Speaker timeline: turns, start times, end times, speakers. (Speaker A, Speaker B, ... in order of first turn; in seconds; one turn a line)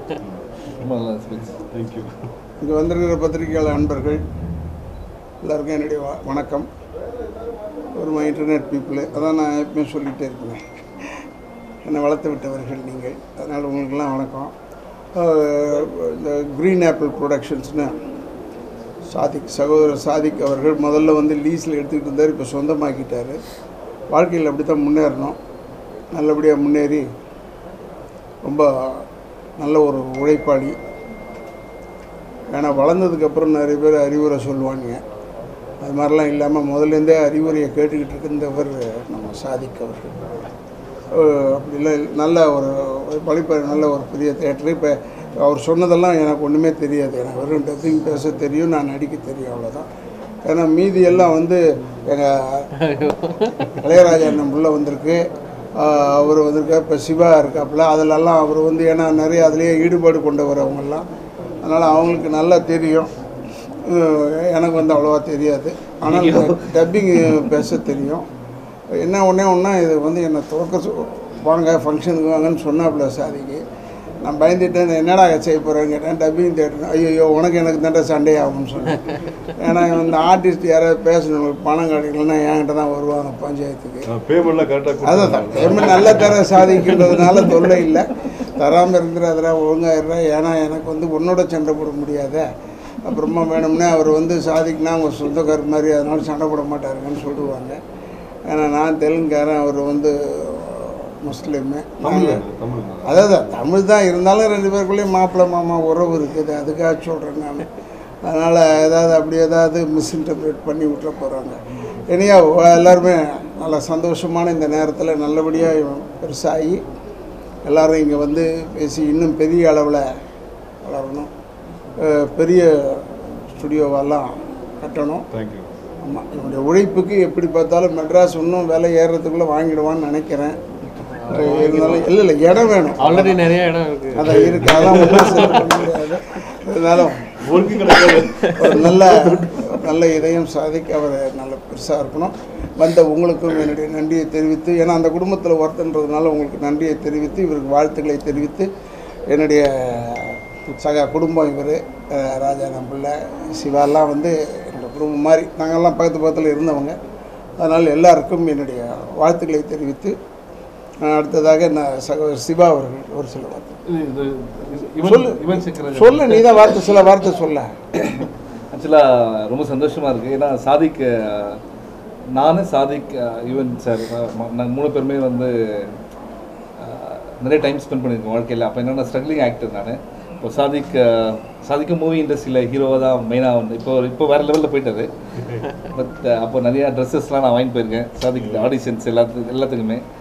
Speaker A: 0.1-0.6
Speaker B: 0.7-1.5
Speaker A: 1.6-2.4
Speaker C: 2.6-4.2
Speaker C: 5.4-6.7
Speaker C: 8.0-10.6
Speaker C: 11.8-14.5
Speaker C: 15.2-17.9
Speaker C: 19.1-23.4
Speaker C: 24.1-25.4
Speaker C: 26.1-27.0
Speaker C: 28.4-29.0
Speaker C: 29.6-30.7
Speaker C: 32.5-35.0
Speaker C: 35.8-40.5
Speaker C: 41.1-49.9
Speaker C: 50.4-52.7
Speaker D: 52.8-53.7
Speaker C: 53.8-55.2
Speaker C: 55.8-61.0
Speaker C: 61.6-63.1
Speaker C: 63.9-68.2
Speaker B: 66.0-67.6
Speaker C: 69.0-73.6
Speaker C: 74.2-84.1
Speaker A: 84.0-86.4
Speaker C: 85.0-92.5
Speaker C: 93.0-97.8
Speaker C: 98.5-102.4
Speaker A: 102.0-103.3
Speaker C: 103.0-107.7
Speaker C: 108.2-116.8
Speaker C: 117.7-120.1
Speaker C: 120.8-121.3
Speaker C: 122.0-125.3
Speaker A: 125.3-125.7
Speaker C: 126.0-130.6
Speaker D: 131.2-132.1
Speaker C: 131.3-133.4
Speaker D: 133.0-135.6
Speaker C: 134.1-137.3
Speaker A: 134.2-135.4
Speaker A: 137.4-139.0
Speaker D: 138.1-138.6
Speaker C: 138.6-148.7
Speaker C: 149.3-156.9
Speaker C: 157.6-160.1
Speaker C: 161.0-163.8
Speaker B: 163.8-166.8
Speaker C: 165.0-167.7
Speaker B: 168.0-171.6
Speaker B: 172.3-176.0
Speaker B: 176.8-185.1
Speaker B: 185.8-190.0
Speaker A: 188.4-188.7